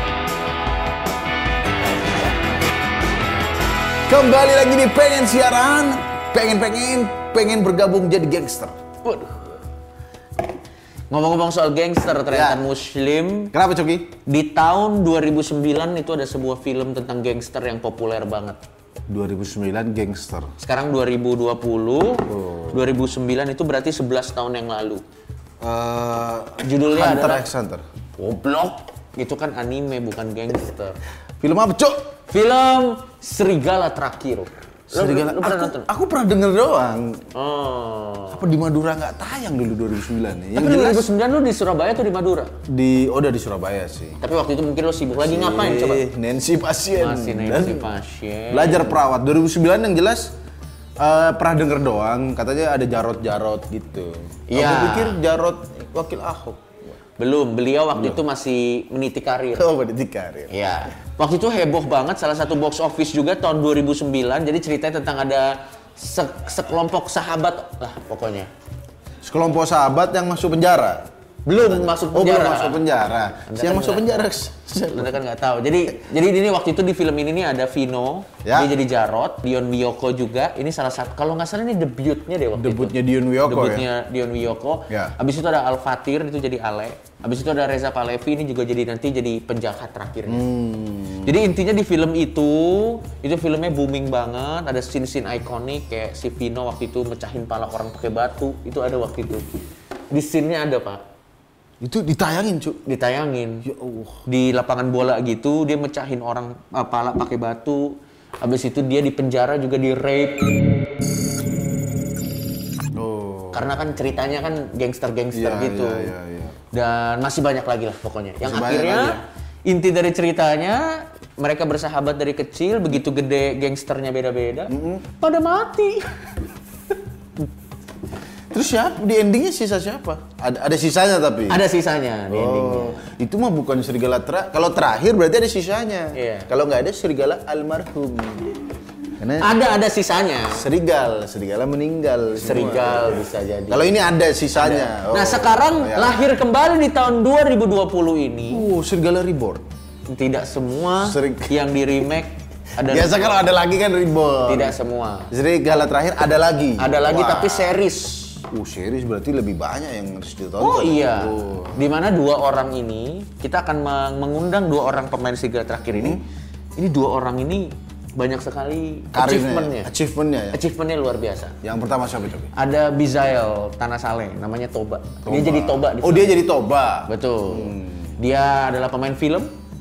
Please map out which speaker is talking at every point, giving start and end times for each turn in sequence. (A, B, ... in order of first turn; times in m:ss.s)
0:04.1-0:08.8 A
0:09.0-0:09.5 B
0:11.1-0:13.5 B
0:12.3-0:12.7 A
0:13.5-0:14.2 A
0:14.3-0:18.6 B
0:19.1-0:20.5 A
0:20.6-0:25.0 B
0:22.3-0:22.9 A
0:25.6-0:27.8 A
0:26.6-0:27.4 B
0:28.2-0:31.0 B
0:31.4-0:32.0 A
0:32.3-0:35.9 B
0:34.9-0:37.2 A
0:37.4-0:38.4 B
0:38.3-0:41.1 A
0:40.6-0:42.5 B
0:42.7-0:44.2 A
0:44.2-0:46.0 B
0:45.2-0:47.9 A
0:47.0-0:49.0 B
0:48.5-0:50.3 A
0:51.0-0:57.0 A
0:54.5-0:55.2 B
0:57.2-0:59.7 B
0:58.0-0:58.2 A
0:59.6-1:00.5 A
1:00.5-1:08.5 B
1:09.2-1:15.2 A
1:11.5-1:12.8 B
1:13.5-1:14.2 B
1:14.9-1:30.4 B
1:18.4-1:18.7 A
1:22.6-1:23.9 A
1:24.9-1:25.1 A
1:30.3-1:31.4 A
1:31.2-1:39.4 B
1:40.1-1:41.0 B
1:41.8-1:42.8 A
1:42.9-1:43.6 B
1:43.6-1:44.2 A
1:44.3-1:50.7 B
1:52.9-1:53.7 A
1:53.5-1:56.1 B
1:55.3-1:56.6 A
1:56.7-2:06.1 B
1:58.4-1:59.2 A
2:04.7-2:05.1 A
2:08.5-2:11.6 A
2:11.5-2:13.0 B
2:12.3-2:18.6 A
2:16.1-2:16.5 B
2:19.2-2:19.5 A
2:19.4-2:20.6 B
2:20.6-2:26.2 A
2:22.4-2:23.9 B
2:24.6-2:28.6 B
2:28.5-2:29.6 A
2:30.1-2:33.3 B
2:31.0-2:31.6 A
2:32.8-2:34.8 A
2:34.5-2:35.3 B
2:35.3-2:37.8 A
2:36.8-2:38.3 B
2:38.5-2:41.9 A
2:40.6-2:46.2 B
2:46.8-2:49.9 B
2:49.1-2:50.6 A
2:50.5-2:51.6 B
2:51.6-2:52.5 A
2:52.6-2:56.4 B
2:55.3-2:58.1 A
2:57.1-2:59.5 B